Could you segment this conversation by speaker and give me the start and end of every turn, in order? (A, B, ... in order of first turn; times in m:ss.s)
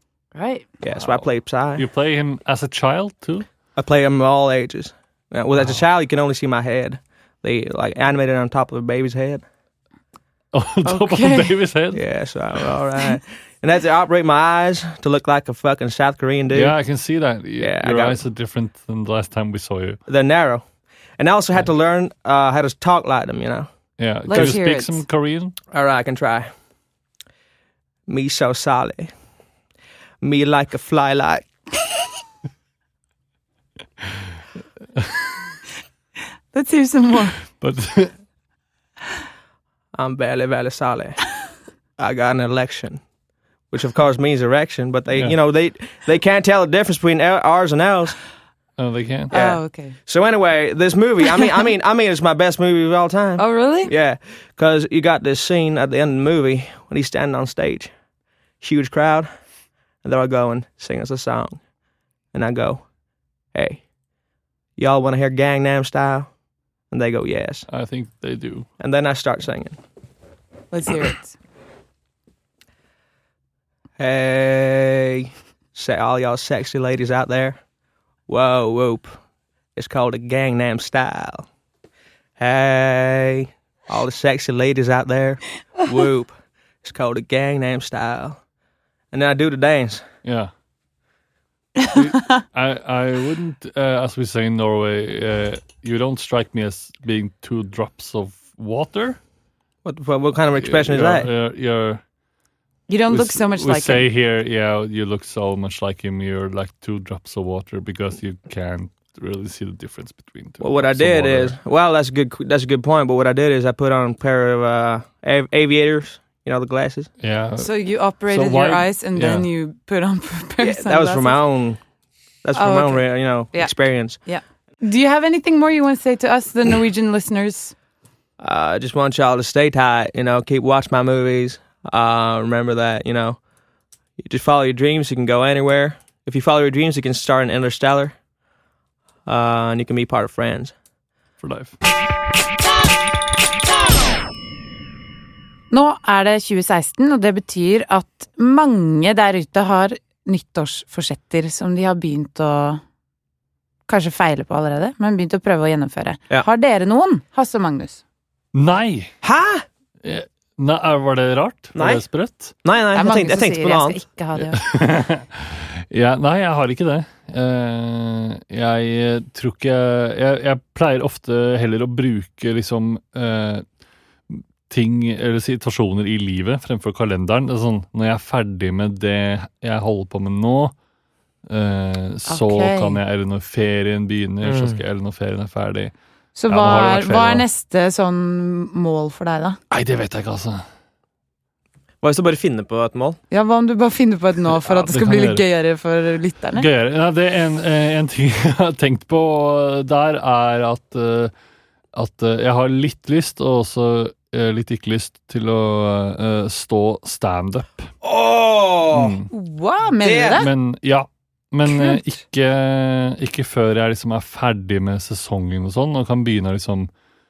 0:00.4-0:00.7 A
0:00.8-0:01.8 B
0:01.8-0:03.5 C
0:03.8-0:09.4 B
0:10.5-0:12.0 C
0:10.8-0:11.5 A
0:11.9-0:16.8 B
0:16.5-0:20.0 C
0:17.6-0:18.2 B
0:20.1-0:20.6 B
0:21.2-0:23.7 B
0:24.0-0:25.6 C
0:24.3-0:25.0 A
0:24.3-0:24.6 B
0:25.7-0:26.5 B
0:28.1-0:29.1 B
0:30.2-0:31.5 B
0:36.5-0:37.4 A
0:37.5-0:38.1 C
0:40.0-0:41.2 B
0:42.0-0:43.0 B
0:43.7-0:48.2 B
0:48.8-0:49.3 C
0:49.3-0:50.0 A
0:49.3-0:57.9 B
0:53.4-0:53.9 A
0:58.6-0:59.3 B
1:00.0-1:01.6 B
1:02.3-1:02.9 B
1:03.5-1:03.8 B
1:04.8-1:06.3 B
1:06.9-1:07.7 B
1:07.7-1:08.7 C
1:08.8-1:09.8 B
1:10.7-1:11.4 A
1:14.0-1:17.6 B
1:18.3-1:19.2 B
1:19.8-1:21.5 B
1:22.4-1:28.4 B
1:29.1-1:30.0 B
1:30.2-1:30.5 C
1:31.9-1:39.2 C
1:39.8-1:41.3 B
1:40.6-1:42.0 C
1:42.9-1:44.1 A
1:43.1-1:51.6 C
1:50.6-1:57.1 B
1:57.2-1:57.7 C
1:57.6-2:01.4 A
1:58.3-1:59.5 C
2:00.6-2:01.8 B
2:02.4-2:04.2 B
2:02.6-2:07.7 A
2:08.4-2:13.4 B
2:14.2-2:18.2 B
2:19.3-2:20.7 B
2:21.4-2:21.7 C
2:25.7-2:32.8 A
2:33.9-2:38.0 A
2:38.5-2:39.1 C
2:39.2-2:39.6 B
2:40.0-2:42.6 C
2:41.8-2:42.0 B
2:42.6-2:44.0 B
2:42.9-2:44.6 A
2:44.4-2:53.6 C
2:54.3-3:00.7 C
3:01.5-3:05.9 C
3:02.3-3:03.0 A
3:04.4-3:04.8 B
3:06.4-3:09.6 A
3:06.5-3:07.4 C
3:09.7-3:10.6 C
3:12.0-3:13.2 B
3:13.3-3:16.7 A
3:14.6-3:15.4 C
3:16.6-3:21.3 C
3:21.9-3:27.9 C
3:28.0-3:29.2 B
3:28.9-3:29.3 C
3:29.3-3:30.5 A
3:30.0-3:30.4 B
3:30.3-3:36.9 C
3:31.7-3:32.0 A